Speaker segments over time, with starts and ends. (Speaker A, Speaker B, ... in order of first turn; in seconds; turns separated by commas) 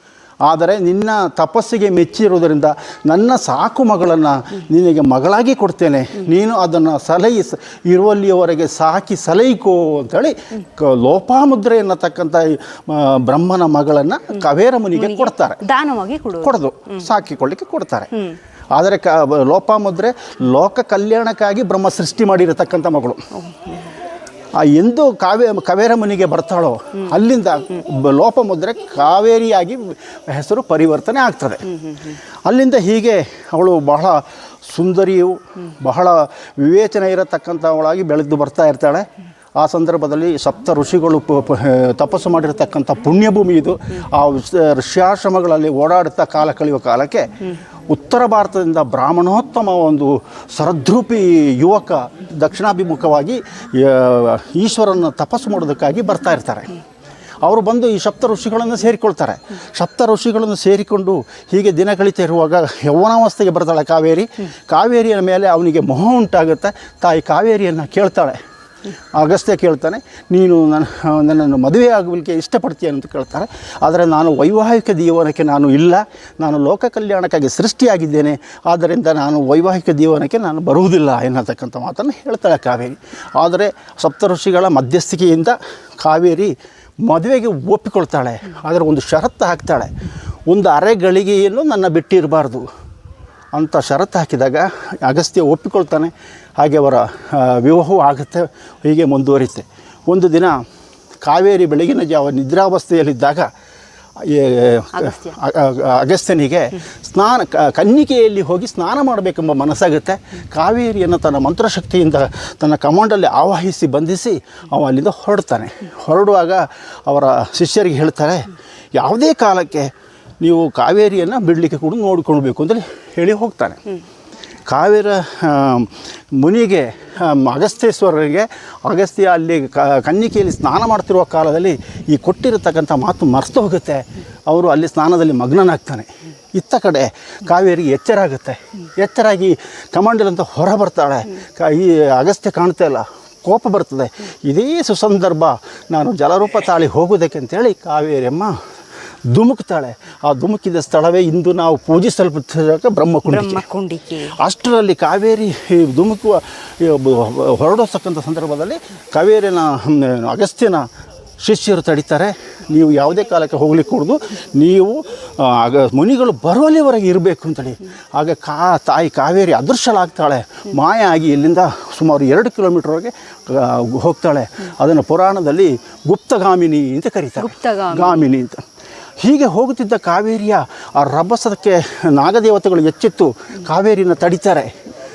Speaker A: 0.5-15.6, Speaker B: 14.9-16.6, Speaker A: 16.4-18.1, Speaker A: 18.7-23.2, Speaker A: 24.6-31.8, Speaker A: 32.5-47.4, Speaker A: 47.9-56.8, Speaker A: 57.4-68.4, Speaker A: 69.1-89.9, Speaker A: 90.5-92.7, Speaker A: 93.5-100.6, Speaker A: 101.2-103.5, Speaker A: 104.2-123.8, Speaker B: 105.0-105.3, Speaker A: 124.7-148.5, Speaker A: 149.3-153.6, Speaker B: 153.3-154.3, Speaker A: 154.3-160.9, Speaker A: 161.4-178.6, Speaker B: 177.4-178.2, Speaker A: 179.2-184.7